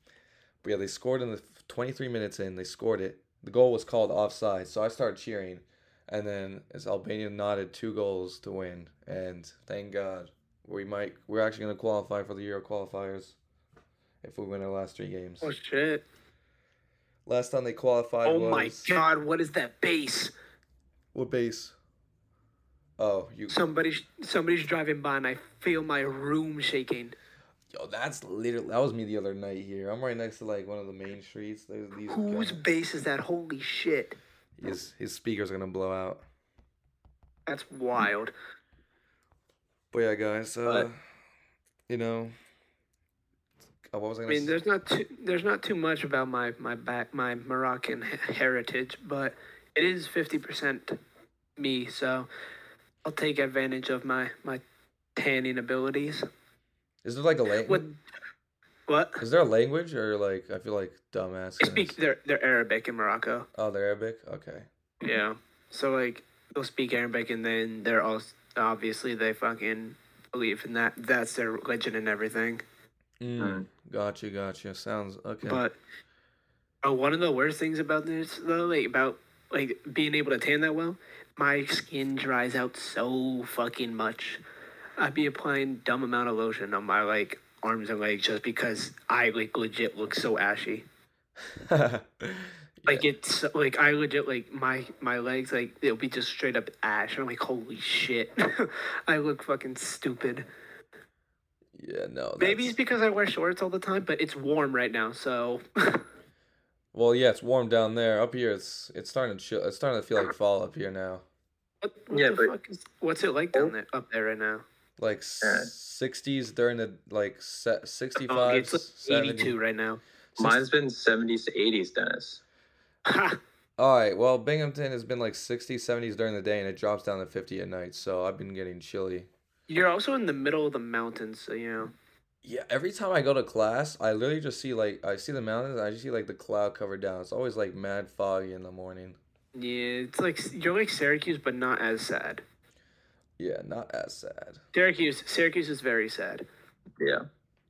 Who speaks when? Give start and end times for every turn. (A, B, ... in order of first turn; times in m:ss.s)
0:00.6-0:13.4 A
0:14.2-0:15.5 A
0:15.4-0:16.0 B
0:17.2-0:18.9 A
0:18.2-0:20.3 B
0:21.1-0:21.7 A
0:23.0-0:23.7 A
0:23.5-0:27.1 B
0:27.7-0:32.6 A
0:32.1-0:34.2 B
0:34.6-0:36.2 A
0:37.5-0:38.3 B
0:39.9-0:41.0 A
0:41.9-0:42.3 A
0:43.9-0:44.5 A
0:44.3-0:51.0 B
0:51.6-0:52.3 B
0:53.0-0:54.6 B
0:55.2-0:56.2 B
0:57.0-0:57.8 A
0:57.6-0:58.0 B
0:58.9-0:59.2 B
0:59.2-1:02.0 A
1:01.6-1:03.5 B
1:03.5-1:04.7 A
1:05.0-1:12.6 B
1:13.2-1:15.6 A
1:13.4-1:13.6 C
1:15.4-1:15.8 B
1:16.8-1:24.4 B
1:25.0-1:30.9 B
1:31.6-1:33.1 A
1:32.8-1:40.5 B
1:41.7-1:42.8 A
1:42.4-1:46.0 B
1:46.9-1:51.2 A
1:51.8-1:54.6 B
1:52.1-1:52.5 C
1:55.0-1:59.6 A
1:55.4-1:55.7 C
1:58.2-2:00.0 B
2:00.4-2:02.4 C
2:03.0-2:03.4 B
2:03.8-2:09.3 A
2:09.7-2:11.9 B
2:12.4-2:19.2 A
2:19.5-2:22.4 B
2:23.4-2:24.6 A
2:24.7-2:26.4 B